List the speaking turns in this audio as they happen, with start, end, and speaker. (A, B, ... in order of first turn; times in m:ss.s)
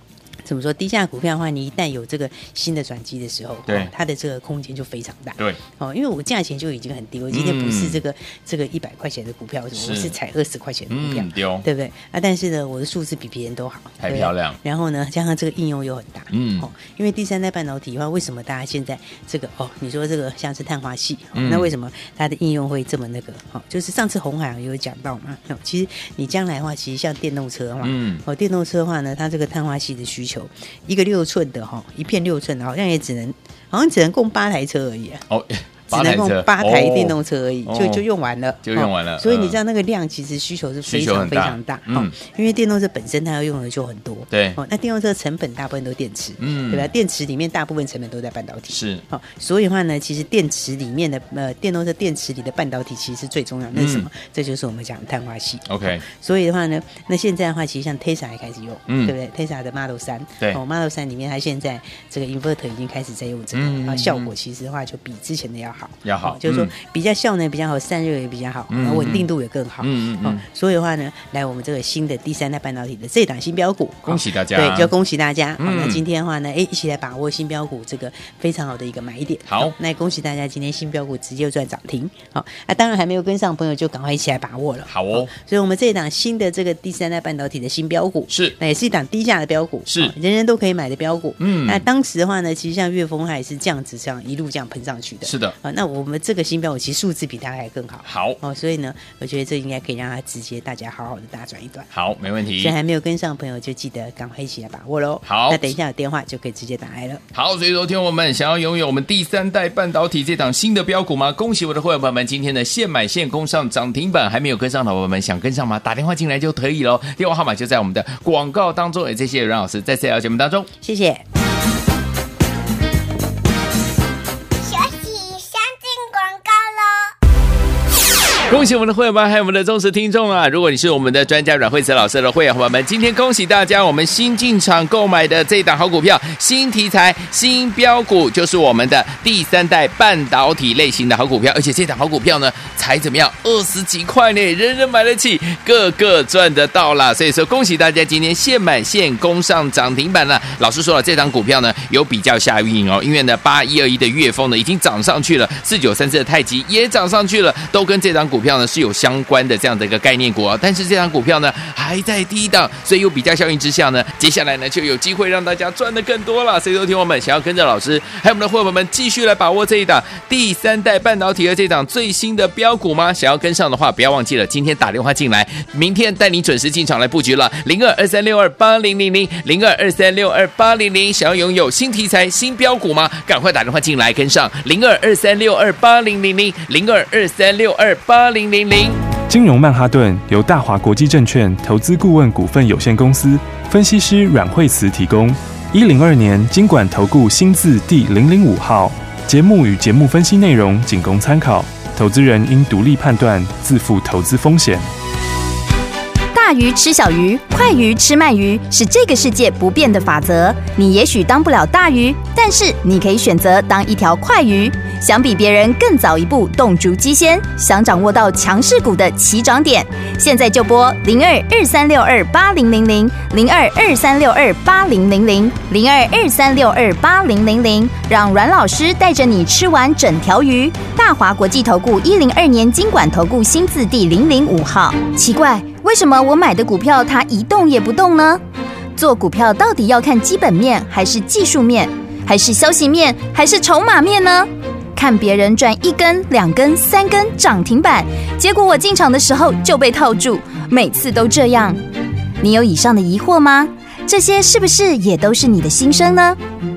0:00.4-0:35.2 A
0:03.7-0:03.9 B
0:07.3-0:08.0 B
0:09.7-0:10.1 B
0:10.9-0:11.6 B
0:14.0-0:14.6 B
0:16.3-0:16.7 B
0:21.3-0:21.7 B
0:27.8-0:28.2 B
0:35.3-0:38.0 B
0:35.9-1:41.9 A
0:38.6-0:39.6 B
0:40.8-0:42.1 B
0:44.3-0:44.6 B
0:46.4-0:46.9 B
0:48.7-0:49.0 B
0:53.7-0:54.1 B
0:55.6-0:56.0 B
0:58.9-0:59.1 B
1:03.5-1:04.3 B
1:06.0-1:06.7 B
1:08.7-1:09.3 B
1:09.8-1:10.4 B
1:14.0-1:14.9 B
1:15.6-1:16.0 B
1:19.4-1:19.7 B
1:24.9-1:25.3 B
1:28.3-1:28.6 B
1:29.9-1:30.1 B
1:31.4-1:31.8 B
1:35.2-1:35.6 B
1:38.0-1:38.4 B
1:41.9-1:42.7 B
1:42.6-1:47.2 A
1:45.2-1:45.7 B
1:47.3-2:00.7 B
2:00.8-2:01.2 A
2:04.6-2:07.1 C
2:08.5-3:09.0 B
3:09.3-3:24.9 D
3:26.3-3:58.4 E
3:59.0-4:11.8 E
4:12.4-4:16.4 E